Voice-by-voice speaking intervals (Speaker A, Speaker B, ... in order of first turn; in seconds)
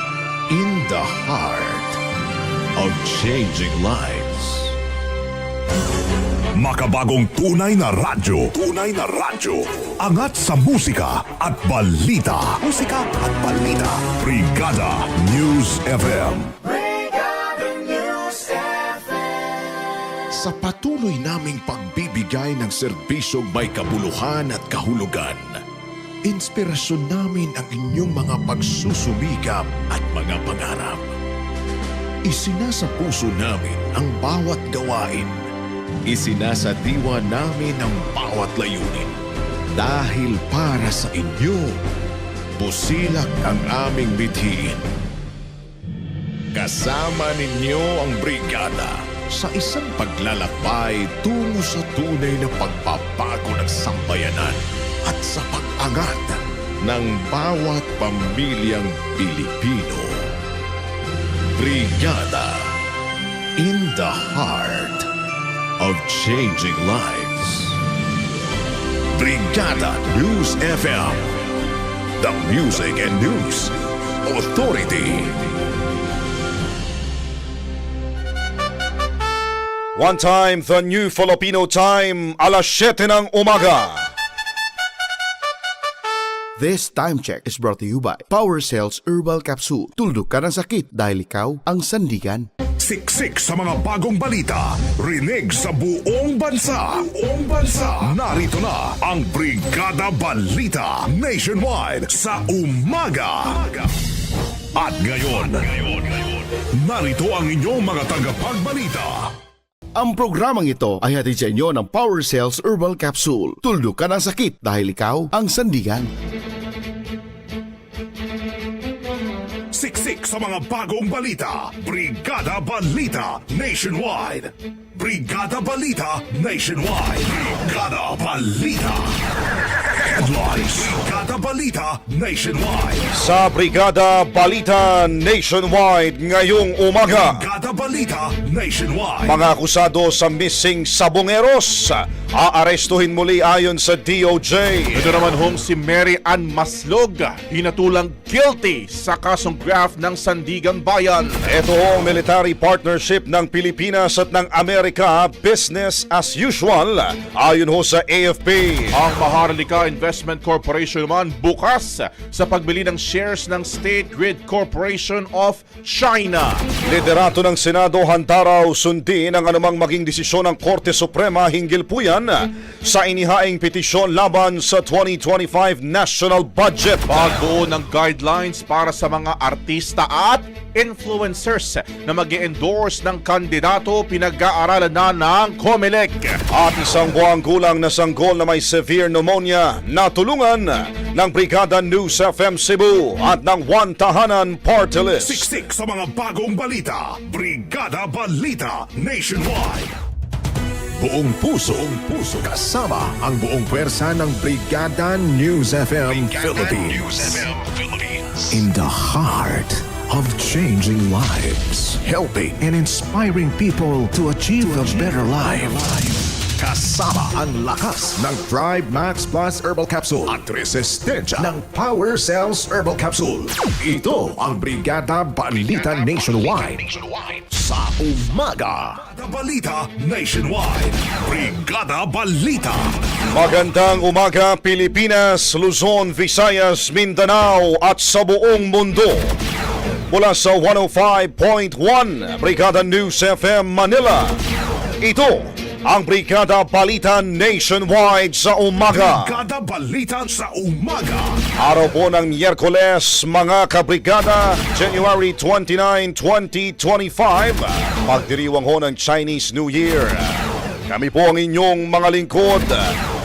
Speaker A: 0.5-2.0, 2.8-4.8, 20.3-25.6, 26.2-31.1, 32.2-35.4, 36.1-39.1, 39.8-41.8, 42.6-44.8, 46.5-60.3, 61.6-62.7, 63.6-65.1, 65.8-67.8, 69.2-71.3, 72.2-75.4, 201.0-229.0
Speaker B: 6.5-16.5, 92.8-103.9, 104.8-106.2, 106.8-109.3, 119.7-129.2, 129.9-133.1, 137.1-139.4, 195.2-199.9, 229.0-232.9, 248.9-251.4
Speaker C: 80.0-84.1, 133.1-137.4, 139.2-145.1, 151.5-158.9, 166.9-177.4, 186.5-195.4, 233.3-239.4, 240.1-244.4, 245.0-249.4, 251.6-260.3, 260.9-262.8
Speaker D: 86.6-92.5, 110.0-116.1
Speaker E: 145.0-151.4, 158.9-166.6, 177.1-186.4